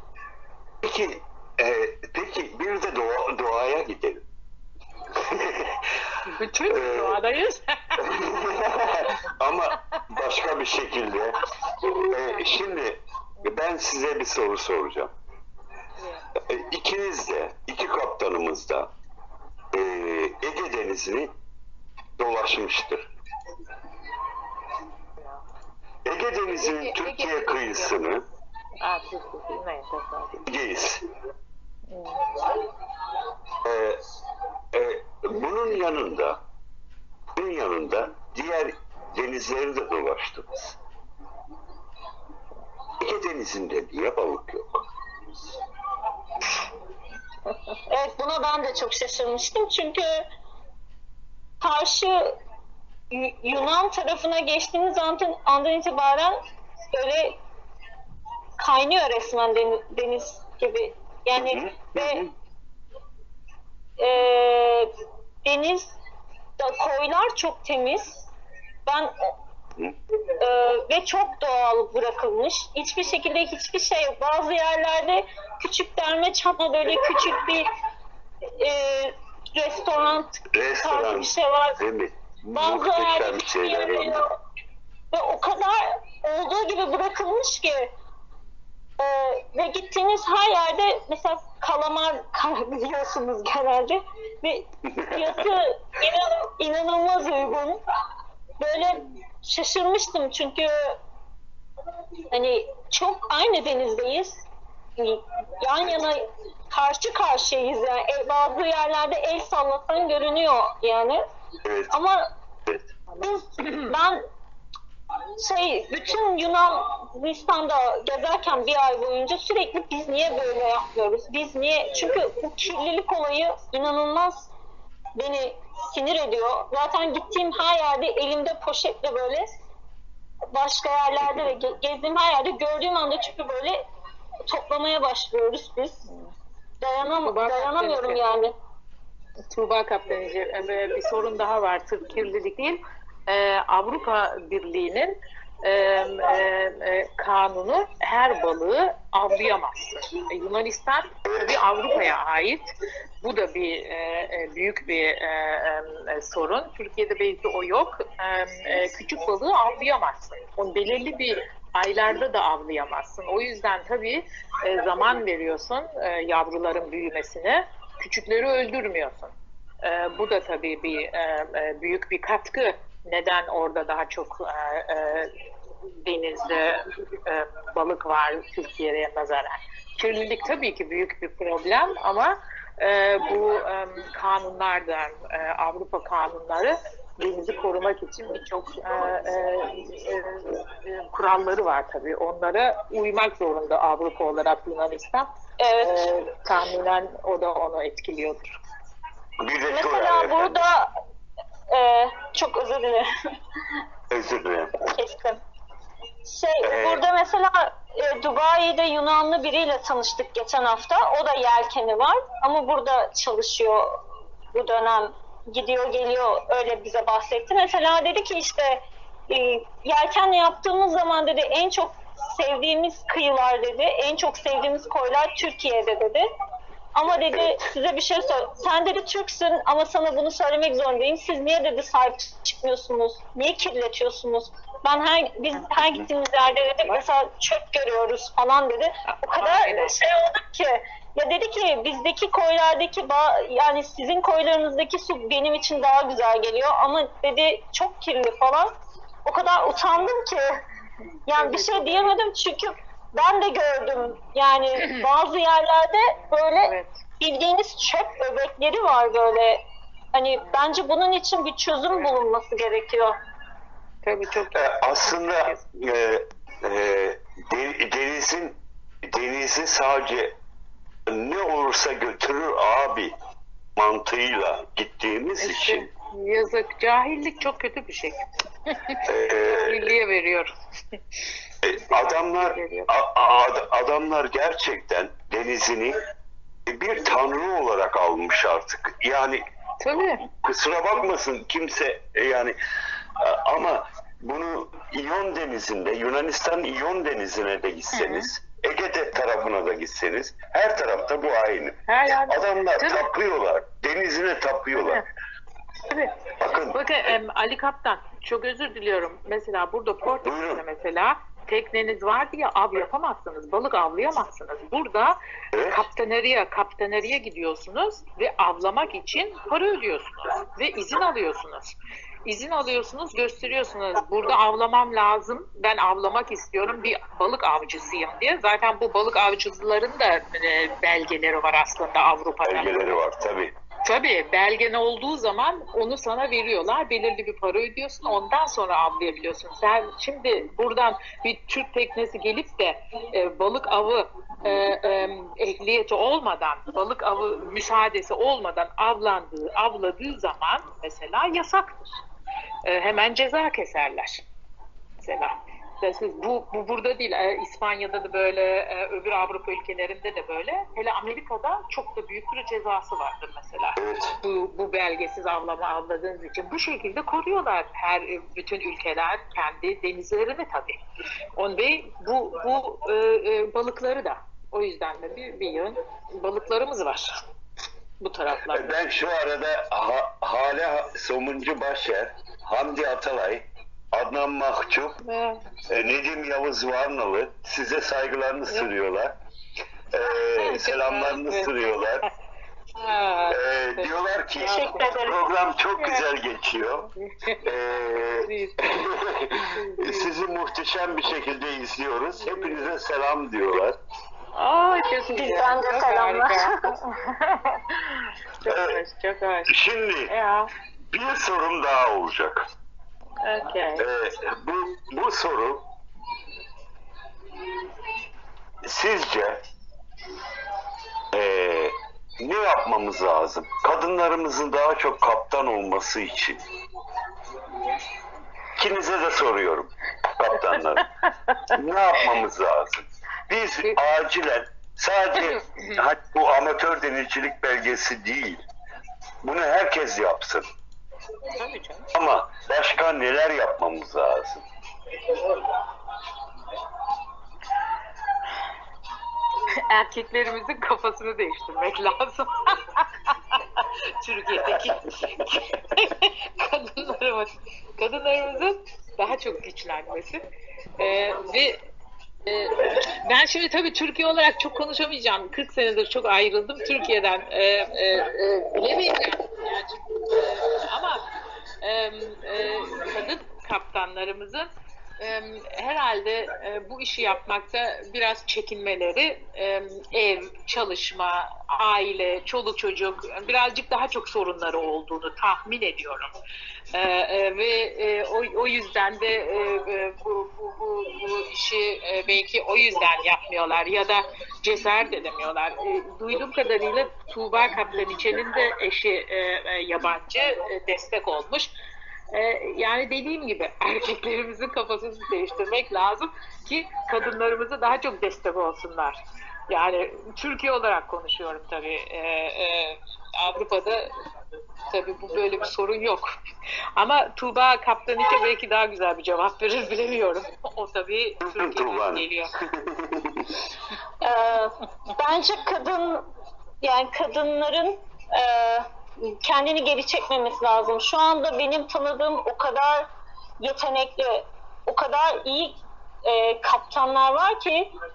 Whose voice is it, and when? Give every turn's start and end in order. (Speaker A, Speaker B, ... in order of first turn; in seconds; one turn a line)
Speaker A: 0.8-4.2
Speaker A: 5.2-5.9
Speaker B: 6.3-8.1
Speaker A: 6.7-7.2
Speaker A: 8.0-15.1
Speaker B: 16.0-16.3
Speaker A: 16.4-18.9
Speaker A: 19.7-21.3
Speaker A: 22.2-23.1
Speaker B: 25.2-25.4
Speaker A: 26.1-28.2
Speaker B: 26.6-28.0
Speaker B: 28.8-30.5
Speaker A: 30.5-31.0
Speaker B: 31.9-32.4
Speaker A: 33.6-34.0
Speaker A: 34.7-36.4
Speaker A: 37.4-40.8
Speaker A: 43.0-44.8
Speaker C: 47.9-50.1
Speaker C: 51.6-52.4
Speaker C: 53.1-56.4
Speaker C: 56.9-57.4
Speaker C: 58.6-62.2
Speaker A: 61.4-62.3
Speaker C: 64.0-64.9
Speaker C: 65.5-65.9
Speaker C: 66.6-68.2
Speaker C: 68.9-69.3
Speaker C: 70.4-77.7
Speaker C: 78.6-81.8
Speaker A: 80.5-84.2
Speaker C: 82.5-84.2
Speaker C: 85.1-87.9
Speaker C: 89.0-97.8
Speaker A: 94.9-95.3
Speaker C: 98.6-101.0
Speaker C: 102.3-104.4
Speaker C: 105.0-111.2
Speaker A: 111.7-112.0
Speaker C: 111.9-112.3
Speaker A: 112.7-112.9
Speaker B: 113.1-113.8
Speaker C: 113.2-114.2
Speaker C: 115.4-124.5
Speaker C: 125.2-129.5
Speaker C: 130.5-133.8
Speaker C: 134.5-136.1
Speaker C: 136.8-138.5
Speaker B: 137.2-138.2
Speaker B: 139.5-152.7
Speaker A: 151.3-151.6
Speaker B: 153.2-175.3
Speaker B: 176.0-198.6
Speaker C: 195.6-196.1
Speaker A: 199.4-200.6
Speaker C: 199.7-200.9
Speaker C: 201.7-203.1
Speaker A: 204.1-204.8
Speaker C: 204.9-205.4
Speaker C: 206.3-213.9
Speaker A: 206.6-207.0
Speaker C: 214.5-226.3
Speaker C: 226.9-248.7
Speaker A: 227.3-227.6
Speaker B: 239.1-240.0
Speaker C: 249.2-250.5
Speaker C: 251.3-259.6
Speaker B: 251.4-252.1
Speaker B: 256.5-256.9
Speaker C: 260.1-263.1
Speaker B: 264.0-265.6
Speaker A: 264.5-270.4
Speaker A: 271.1-273.1
Speaker A: 273.8-275.9
Speaker B: 275.4-280.5
Speaker A: 279.0-279.9
Speaker A: 281.6-286.0
Speaker B: 281.9-282.9
Speaker A: 286.7-289.4
Speaker B: 289.8-290.2
Speaker A: 290.3-292.6
Speaker A: 293.2-305.0
Speaker B: 297.9-298.3
Speaker B: 301.9-303.1
Speaker B: 304.7-305.0
Speaker B: 305.9-306.2
Speaker A: 306.4-307.1
Speaker B: 306.7-333.0
Speaker A: 310.2-310.6
Speaker A: 315.5-315.8
Speaker A: 332.4-333.6
Speaker B: 333.9-352.0
Speaker B: 352.6-354.2
Speaker B: 355.0-370.8
Speaker A: 363.8-364.2
Speaker B: 371.4-377.2
Speaker B: 378.0-378.8
Speaker A: 378.5-385.0
Speaker B: 385.1-385.5
Speaker A: 385.7-389.2
Speaker A: 389.9-392.1
Speaker B: 390.3-391.6
Speaker B: 392.8-393.9
Speaker A: 393.3-396.9
Speaker C: 394.4-395.2
Speaker B: 394.4-394.9
Speaker B: 395.8-396.1
Speaker B: 397.0-397.4
Speaker A: 397.4-403.8
Speaker B: 398.2-398.8
Speaker B: 399.4-400.1
Speaker B: 402.2-402.7
Speaker B: 404.3-409.6
Speaker C: 405.1-406.7
Speaker A: 408.5-408.8
Speaker A: 409.5-410.1
Speaker B: 410.1-410.5
Speaker A: 410.9-412.4
Speaker B: 413.2-413.9
Speaker A: 413.8-415.6
Speaker A: 418.6-419.5
Speaker A: 421.1-426.4
Speaker A: 428.6-430.9
Speaker A: 431.5-438.4
Speaker B: 435.1-435.8
Speaker A: 439.2-440.5
Speaker B: 441.4-441.9
Speaker A: 441.9-444.4
Speaker B: 449.7-454.8
Speaker A: 454.5-455.8
Speaker B: 455.7-460.2
Speaker B: 460.8-461.6
Speaker B: 462.3-471.1
Speaker B: 471.6-486.1
Speaker B: 486.7-501.5
Speaker B: 502.1-513.9
Speaker B: 514.7-516.1
Speaker B: 516.8-522.3
Speaker A: 521.2-523.3
Speaker C: 524.0-526.0
Speaker C: 526.6-532.9
Speaker C: 533.4-537.7